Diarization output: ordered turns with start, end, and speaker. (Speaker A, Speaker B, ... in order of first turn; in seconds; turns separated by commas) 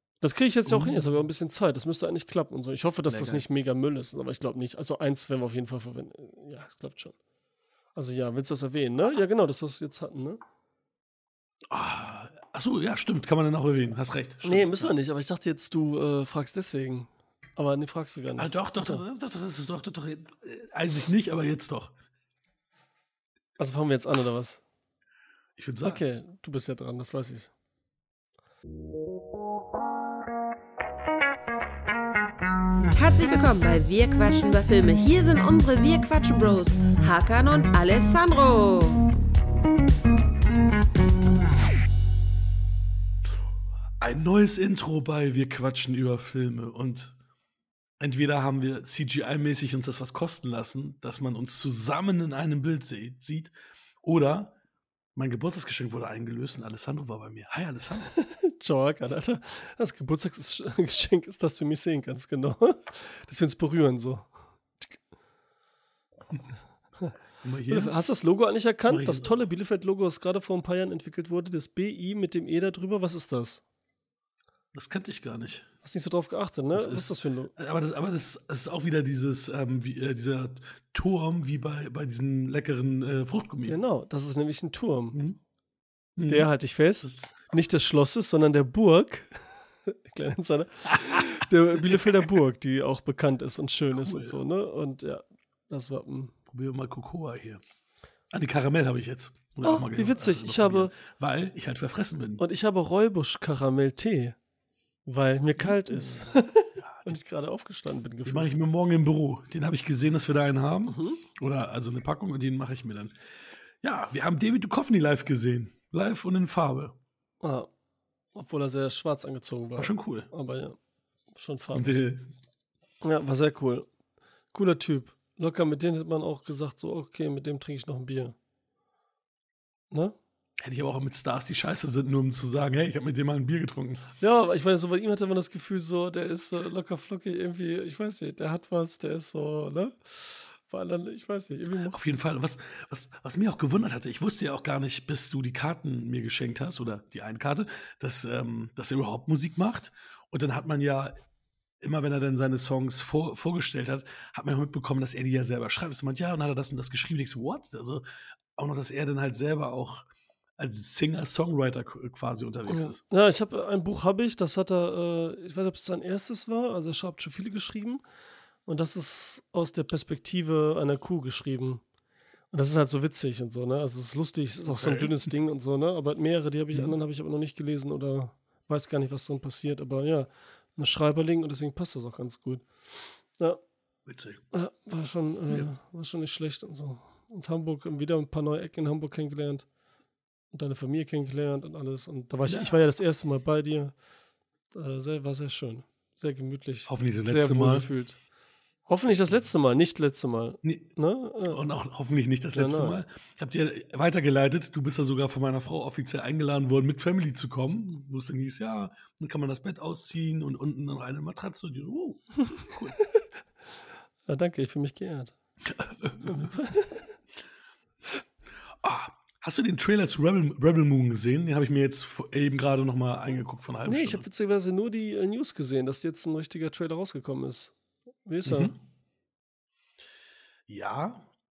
Speaker A: 0.2-7.2, Speaker B: 0.7-1.2, Speaker B: 3.1-3.4, Speaker A: 8.0-10.4, Speaker B: 11.7-14.9, Speaker A: 14.4-19.0, Speaker B: 18.4-21.9, Speaker A: 23.6-24.6, Speaker B: 25.6-26.0, Speaker A: 25.8-27.5, Speaker C: 33.0-39.0, Speaker B: 44.0-47.2, Speaker B: 48.0-54.5, Speaker B: 55.1-58.1, Speaker A: 58.2-64.3, Speaker B: 67.4-67.9, Speaker A: 67.7-73.6, Speaker B: 68.9-69.3, Speaker B: 74.7-75.7, Speaker A: 75.8-77.5, Speaker B: 76.7-83.8, Speaker A: 83.7-85.2, Speaker B: 86.2-86.5, Speaker A: 86.3-96.3, Speaker B: 87.0-87.4, Speaker B: 90.9-91.2, Speaker B: 93.9-94.4, Speaker B: 96.5-97.6, Speaker B: 98.3-102.4, Speaker A: 99.6-100.9, Speaker A: 102.4-104.3, Speaker A: 105.0-108.5, Speaker B: 105.6-107.1, Speaker B: 108.2-113.2, Speaker A: 110.9-111.2, Speaker B: 113.8-117.0, Speaker A: 117.4-117.7, Speaker A: 118.3-120.8, Speaker B: 119.8-120.3, Speaker A: 121.3-122.0, Speaker B: 121.7-122.3, Speaker A: 123.0-123.9, Speaker A: 124.5-128.4, Speaker A: 129.9-130.2, Speaker B: 130.6-134.1, Speaker A: 134.2-142.0, Speaker B: 141.9-151.2, Speaker B: 151.8-158.0, Speaker B: 158.6-163.0, Speaker A: 162.7-168.0, Speaker A: 168.7-171.8, Speaker A: 172.5-183.6, Speaker B: 174.7-175.2, Speaker B: 184.1-184.4, Speaker A: 184.5-189.7, Speaker A: 190.5-194.0, Speaker B: 192.5-192.7, Speaker A: 194.7-198.2, Speaker B: 196.9-197.9, Speaker A: 198.8-201.6, Speaker B: 200.6-200.9, Speaker B: 201.5-213.0, Speaker A: 202.5-203.0, Speaker A: 212.4-213.1, Speaker A: 214.3-215.3, Speaker B: 215.7-216.5, Speaker A: 216.2-217.1, Speaker B: 218.8-224.3, Speaker A: 223.9-227.7, Speaker A: 228.2-228.7, Speaker B: 228.5-228.8, Speaker B: 230.7-231.3